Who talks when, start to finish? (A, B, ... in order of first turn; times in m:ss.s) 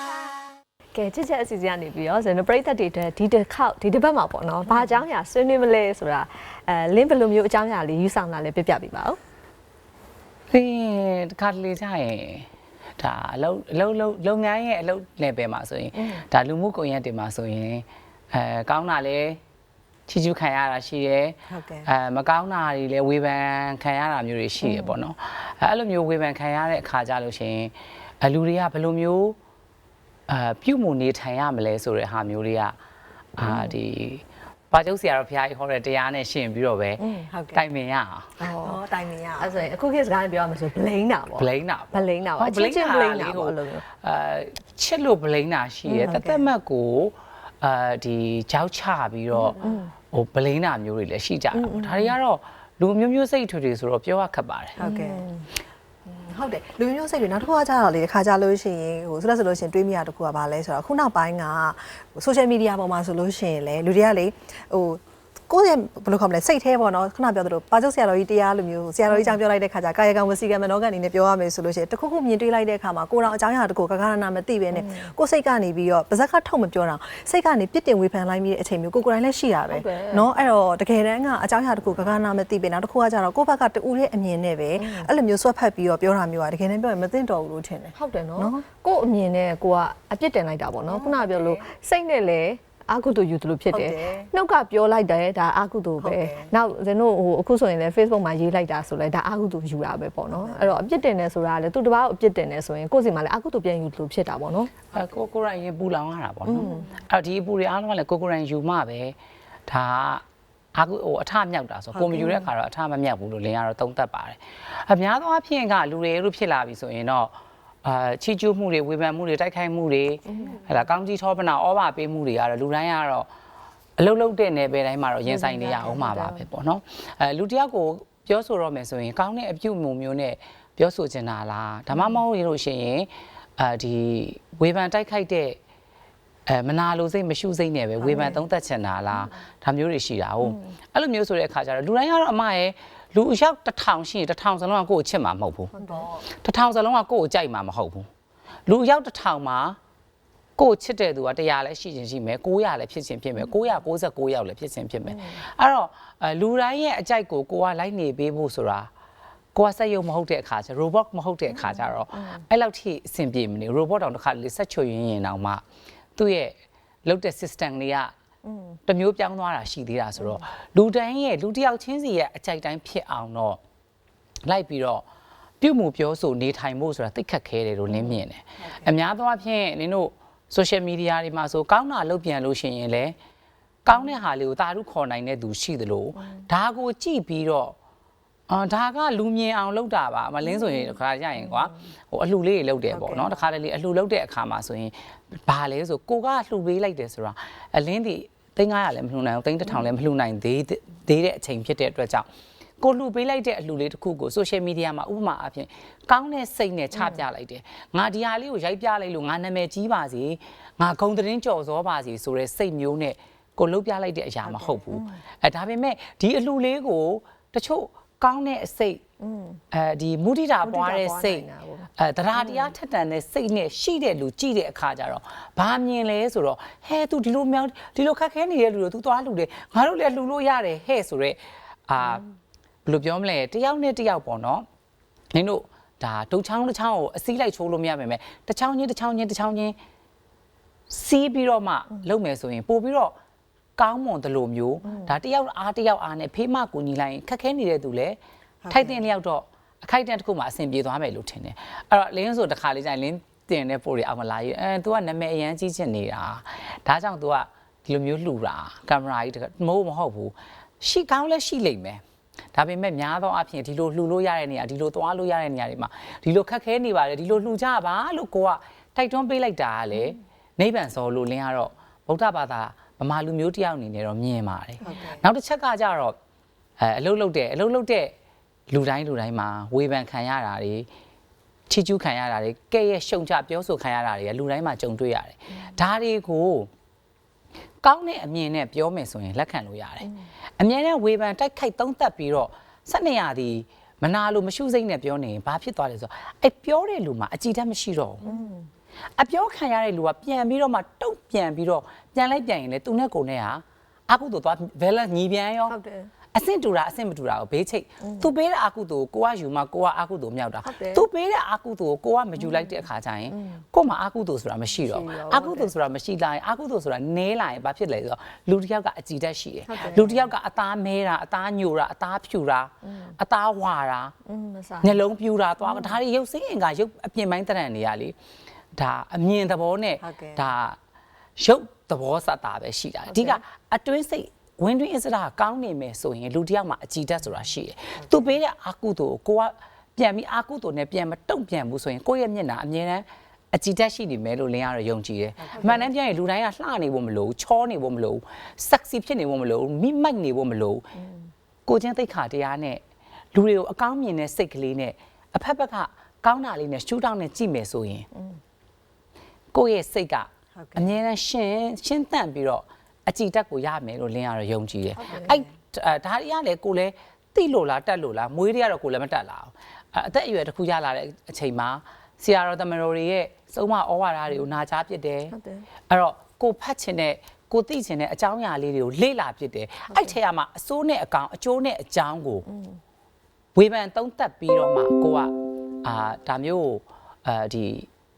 0:00.9-0:09.2 A
0:10.5-0:12.5 B
0:13.0-0:19.4 B
0:20.1-0:29.4 B
0:21.5-0:21.9 C
0:30.3-0:32.7 B
0:33.4-0:38.3 B
0:37.0-0:37.6 C
0:38.4-0:39.5 C
0:38.5-0:38.8 A
0:39.4-0:43.8 A
0:41.4-0:49.6 B
0:45.9-0:46.2 A
0:46.0-0:46.5 C
0:49.5-0:49.8 C
0:49.6-0:49.9 A
0:50.1-0:54.8 B
0:51.5-0:52.2 A
0:54.8-0:55.3 C
0:54.8-0:55.4 A
0:56.0-1:28.6 C
1:09.1-1:09.4 A
1:14.7-1:15.1 A
1:19.7-1:20.3 A
1:24.8-1:25.1 A
1:27.9-1:44.7 A
1:30.9-1:31.6 C
1:33.7-1:34.3 C
1:36.0-1:36.5 C
1:40.3-1:40.8 C
1:44.9-1:49.2 B
1:46.5-1:46.9 A
1:49.7-1:50.2 B
1:50.7-2:03.3 B
1:51.9-1:52.4 C
2:00.3-2:00.6 A
2:04.0-2:15.6 B
2:05.3-2:06.4 A
2:16.5-2:25.7 B
2:18.1-2:18.3 A
2:18.1-2:18.4 C
2:25.8-2:26.2 C
2:25.8-2:26.0 A
2:26.3-2:28.1 B
2:28.7-2:29.8 B
2:30.6-2:38.9 B
2:35.0-2:35.4 A
2:39.5-2:45.6 B
2:41.7-2:42.4 A
2:46.2-2:48.1 B
2:48.4-2:48.8 A
2:48.9-2:53.6 B
2:54.4-2:55.0 B
2:55.6-3:03.2 B
3:03.8-3:07.7 B
3:08.5-3:22.2 B
3:12.9-3:13.4 C
3:22.8-3:39.0 B
3:34.4-3:34.8 C
3:39.2-3:39.6 A
3:39.7-3:41.5 B
3:40.6-3:42.7 A
3:42.0-3:52.2 B
3:52.8-3:54.6 B
3:55.3-3:59.8 B
4:00.9-4:03.1 B
4:03.8-4:08.2 B
4:08.6-4:09.0 C
4:08.7-4:22.0 B
4:22.5-4:36.2 B
4:34.8-4:35.2 C
4:36.8-4:38.1 B
4:38.7-4:40.9 B
4:41.7-4:46.7 B
4:47.8-4:58.3 B
4:58.2-4:58.7 A
4:59.2-5:05.7 B
5:05.7-5:06.1 A
5:06.3-5:24.1 B
5:08.0-5:08.3 A
5:10.6-5:11.0 A
5:12.5-5:12.8 A
5:13.3-5:13.6 A
5:14.8-5:15.7 A
5:19.7-5:20.3 A
5:22.8-5:23.1 A
5:24.2-5:25.0 A
5:24.8-5:28.1 B
5:25.6-5:25.9 A
5:28.7-5:30.8 B
5:30.0-5:30.5 C
5:31.4-5:50.8 B
5:33.1-5:33.4 A
5:45.4-5:45.9 C
5:51.7-5:52.8 B
5:53.3-5:58.0 B
5:59.5-6:15.3 B
6:00.6-6:00.9 C
6:05.0-6:05.3 A
6:05.1-6:05.4 C
6:15.3-6:15.6 A
6:15.9-6:22.5 B
6:19.9-6:20.1 A
6:22.5-6:22.8 A
6:23.5-6:27.9 B